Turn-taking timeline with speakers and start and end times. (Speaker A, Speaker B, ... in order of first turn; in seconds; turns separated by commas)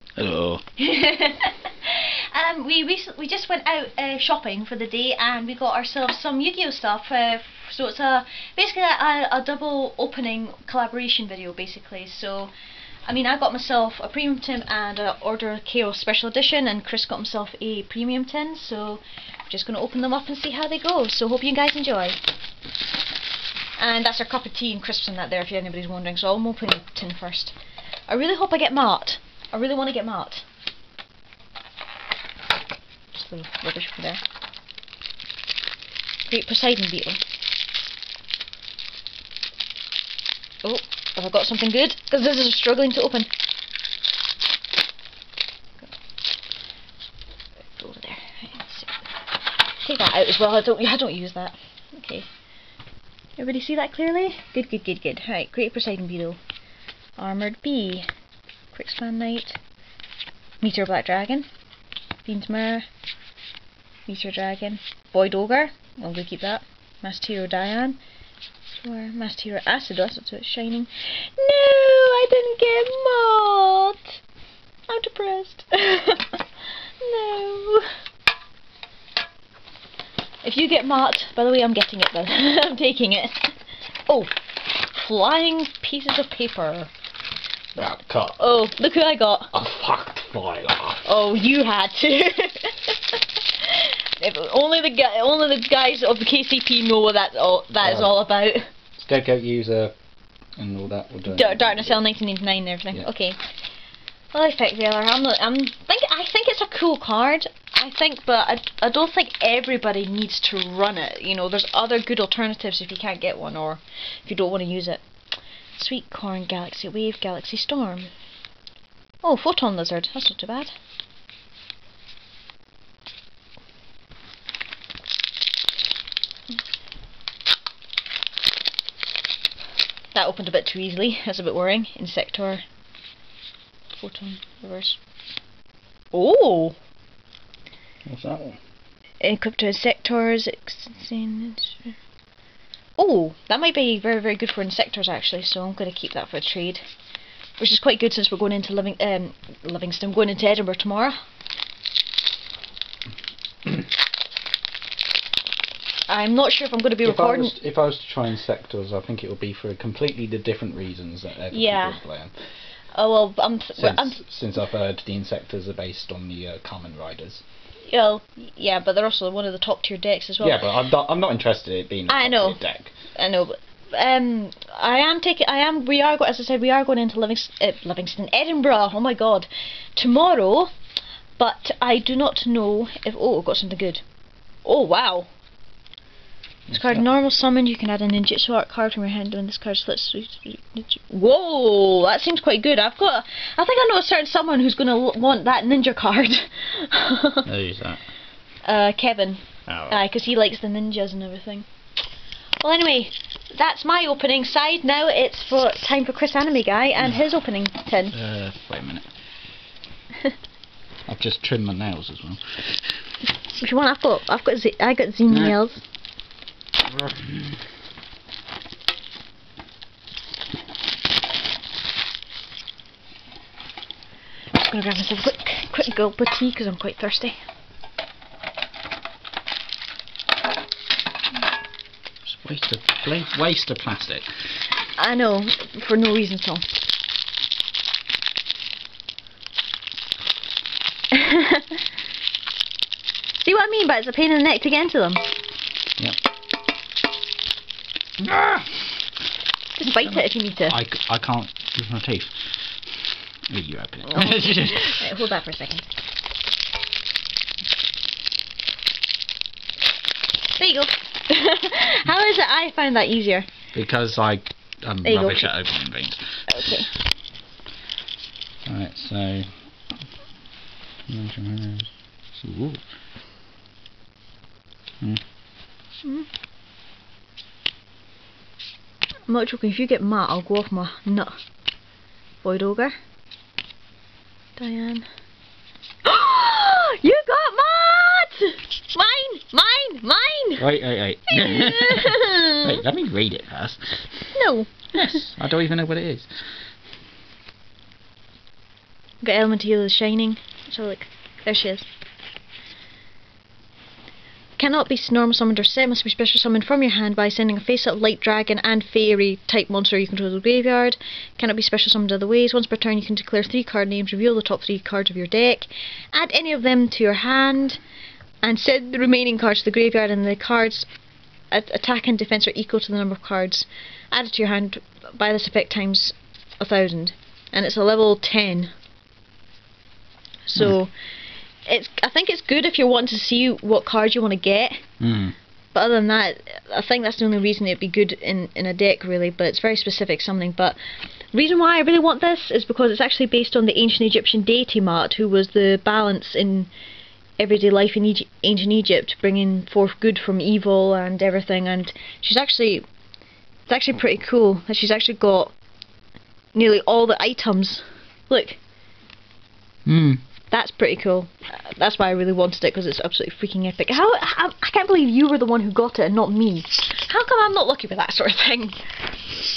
Speaker A: 0.2-0.6, Speaker B: 0.8-12.5, Speaker B: 13.1-22.2, Speaker B: 23.8-27.6, Speaker B: 28.1-30.4, Speaker B: 33.1-34.2, Speaker B: 36.3-37.2, Speaker B: 40.6-43.3, Speaker B: 47.8-49.0, Speaker B: 49.8-52.3, Speaker B: 53.4-56.4, Speaker B: 57.2-58.1, Speaker B: 58.7-59.6, Speaker B: 60.6-61.5, Speaker B: 62.2-62.9, Speaker B: 64.1-68.0, Speaker B: 68.8-74.2, Speaker B: 74.9-76.5, Speaker B: 77.0-77.9, Speaker B: 80.4-83.5, Speaker B: 84.1-86.9, Speaker A: 87.8-88.5, Speaker B: 88.4-89.5, Speaker A: 89.5-91.1, Speaker B: 91.0-98.7, Speaker A: 97.8-98.2, Speaker A: 99.0-99.9, Speaker A: 100.6-102.0, Speaker B: 101.3-103.4, Speaker B: 104.3-115.0, Speaker B: 115.8-118.1, Speaker B: 119.2-120.7, Speaker B: 130.1-132.6, Speaker B: 134.0-135.0, Speaker B: 136.1-136.8, Speaker A: 138.1-138.6, Speaker B: 139.2-141.9, Speaker B: 143.0-146.8, Speaker B: 147.6-151.2, Speaker B: 156.1-157.5, Speaker A: 157.0-162.3, Speaker B: 161.5-162.0, Speaker B: 162.9-164.2, Speaker A: 163.8-167.4, Speaker B: 167.9-170.7, Speaker A: 170.4-172.9, Speaker B: 172.1-172.6, Speaker B: 173.2-180.7, Speaker B: 181.4-184.0, Speaker B: 184.7-185.3, Speaker B: 186.7-197.5, Speaker A: 186.7-187.1, Speaker A: 197.4-198.0, Speaker B: 198.7-201.7, Speaker A: 199.7-200.0, Speaker B: 202.6-208.2, Speaker A: 208.1-209.1, Speaker A: 211.1-212.8, Speaker B: 213.5-215.8, Speaker A: 215.3-215.6, Speaker A: 216.9-217.5, Speaker B: 224.5-227.4, Speaker A: 232.2-234.3, Speaker B: 235.0-236.7, Speaker B: 241.1-241.8, Speaker B: 243.4-245.2, Speaker A: 248.2-248.8, Speaker B: 249.8-250.8, Speaker A: 250.1-252.3, Speaker A: 253.5-255.0, Speaker B: 254.1-255.9, Speaker B: 260.6-263.5, Speaker A: 263.7-266.2, Speaker B: 265.0-265.5, Speaker B: 266.5-266.9, Speaker A: 268.7-269.5, Speaker A: 271.1-271.9, Speaker A: 272.4-272.8, Speaker B: 279.3-281.3, Speaker B: 282.4-283.0, Speaker B: 284.6-285.1, Speaker B: 286.0-290.7, Speaker A: 290.6-294.0, Speaker B: 291.3-292.8, Speaker B: 294.3-295.2, Speaker A: 294.9-296.3, Speaker B: 299.2-301.9, Speaker B: 304.6-317.8, Speaker B: 318.4-320.9, Speaker B: 321.5-328.7, Speaker B: 330.5-330.9, Speaker B: 331.7-334.8, Speaker A: 335.0-335.4, Speaker B: 335.7-340.8, Speaker B: 341.3-346.7, Speaker B: 347.4-352.8, Speaker B: 353.7-355.5, Speaker B: 356.5-358.6, Speaker A: 359.9-360.2, Speaker B: 360.5-368.8